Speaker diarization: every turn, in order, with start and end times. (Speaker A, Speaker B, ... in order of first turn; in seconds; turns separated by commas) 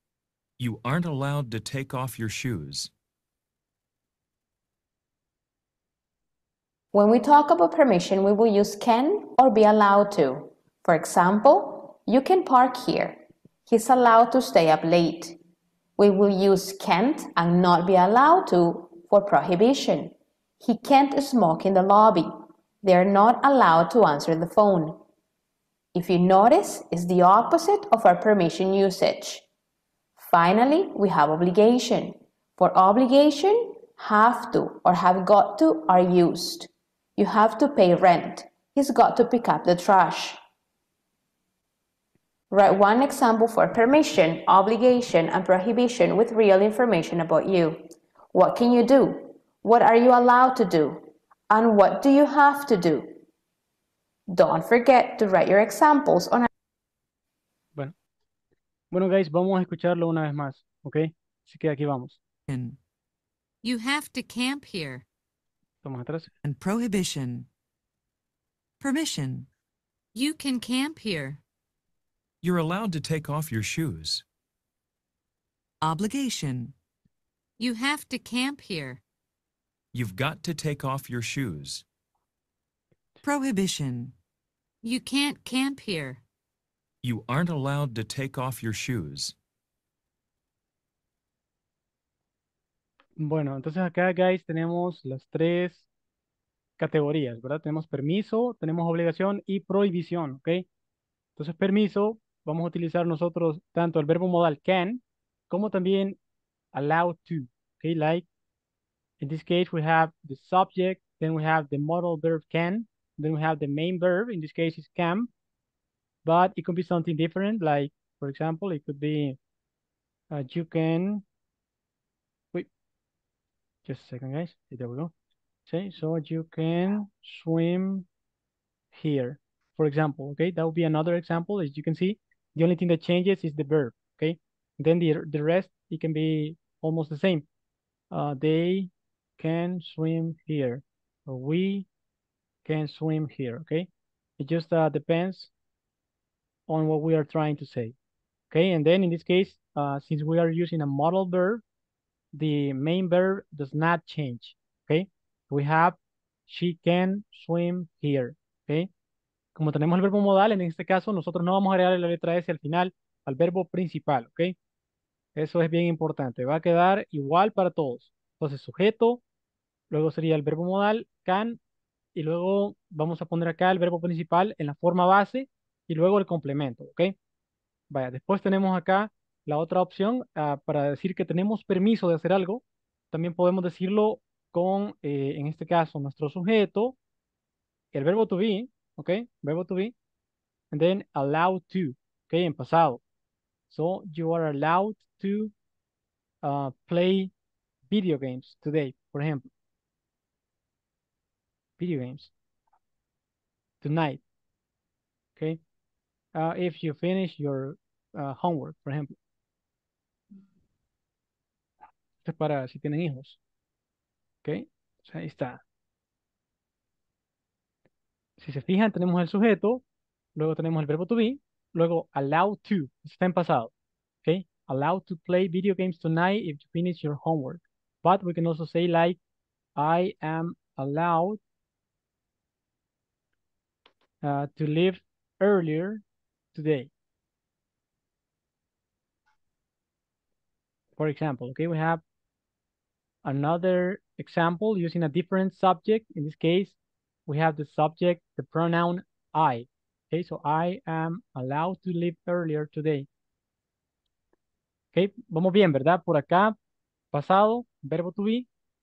Speaker A: 0.6-2.9, Speaker B: 6.9-15.4, Speaker B: 16.0-25.0, Speaker B: 25.9-29.4, Speaker B: 30.2-40.4, Speaker B: 42.5-53.2, Speaker B: 54.3-56.5, Speaker C: 58.9-62.2, Speaker D: 62.5-62.8, Speaker E: 63.6-65.0, Speaker C: 65.8-66.3, Speaker D: 66.4-67.5, Speaker D: 68.8-69.5, Speaker E: 70.1-71.4, Speaker A: 72.4-74.2, Speaker D: 75.8-76.7, Speaker E: 77.6-79.0, Speaker A: 79.9-81.8, Speaker D: 83.2-84.2, Speaker E: 84.8-86.2, Speaker A: 87.0-89.3, Speaker C: 93.2-95.9, Speaker C: 96.8-100.7, Speaker C: 101.4-106.2, Speaker C: 106.7-108.3, Speaker C: 109.2-115.3, Speaker C: 116.2-119.4, Speaker C: 120.3-121.2, Speaker C: 123.9-125.1, Speaker C: 125.7-128.1, Speaker C: 128.9-137.5, Speaker C: 138.1-141.9, Speaker C: 142.7-143.9, Speaker C: 144.4-145.5, Speaker C: 146.7-147.9, Speaker C: 148.5-151.6, Speaker C: 152.3-158.9, Speaker C: 159.6-164.6, Speaker C: 165.4-169.2, Speaker C: 169.9-171.6, Speaker C: 172.2-177.2, Speaker C: 177.9-187.0, Speaker C: 187.9-189.9, Speaker C: 190.7-193.0, Speaker C: 193.7-195.5, Speaker C: 196.4-197.3, Speaker C: 197.9-199.5, Speaker C: 201.8-202.3, Speaker C: 203.8-204.2, Speaker C: 206.3-209.1, Speaker C: 212.2-213.4, Speaker C: 214.4-215.6, Speaker C: 218.4-219.8, Speaker C: 220.4-223.7, Speaker C: 224.2-229.2, Speaker C: 229.8-231.4, Speaker C: 234.2-236.0, Speaker C: 236.5-236.9, Speaker C: 241.0-242.0, Speaker C: 243.2-246.8, Speaker C: 247.3-253.1, Speaker C: 254.9-256.6, Speaker C: 257.1-258.5